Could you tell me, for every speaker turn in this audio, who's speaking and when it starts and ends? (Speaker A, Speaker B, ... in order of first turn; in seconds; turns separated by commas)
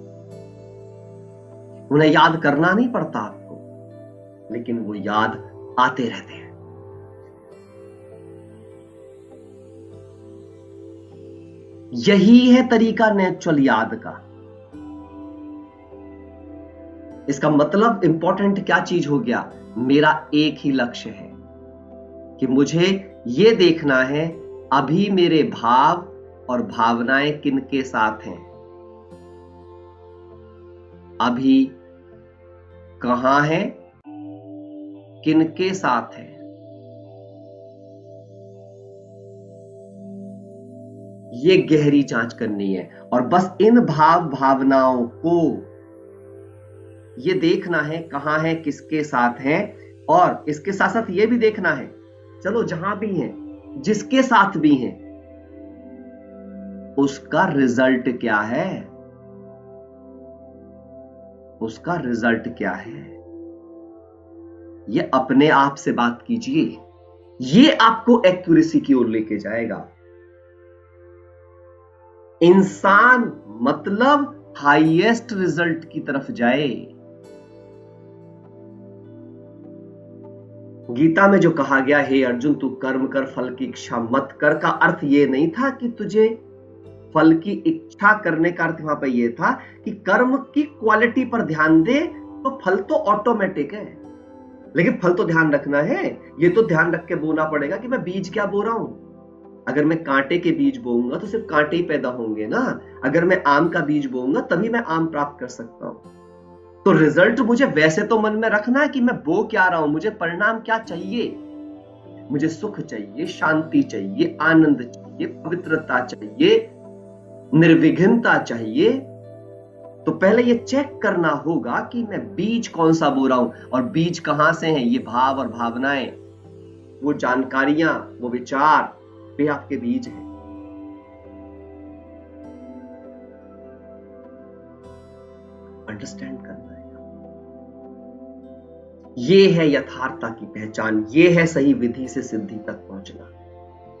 Speaker A: 1.9-3.6, Speaker A: 4.5-6.5, Speaker A: 11.9-14.2, Speaker A: 17.3-21.3, Speaker A: 22.4-28.5, Speaker A: 31.2-31.8, Speaker A: 33.0-33.8, Speaker A: 35.2-36.4, Speaker A: 41.3-45.7, Speaker A: 47.2-55.0, Speaker A: 57.0-58.9, Speaker A: 61.6-63.1, Speaker A: 64.9-66.8, Speaker A: 67.4-69.9, Speaker A: 72.4-76.9, Speaker A: 80.9-86.4, Speaker A: 87.1-94.0, Speaker A: 94.7-99.0, Speaker A: 99.7-106.0, Speaker A: 106.8-111.4, Speaker A: 112.3-116.7, Speaker A: 117.5-119.1, Speaker A: 120.0-126.2, Speaker A: 127.0-130.3, Speaker A: 135.9-136.9, Speaker A: 139.2-143.3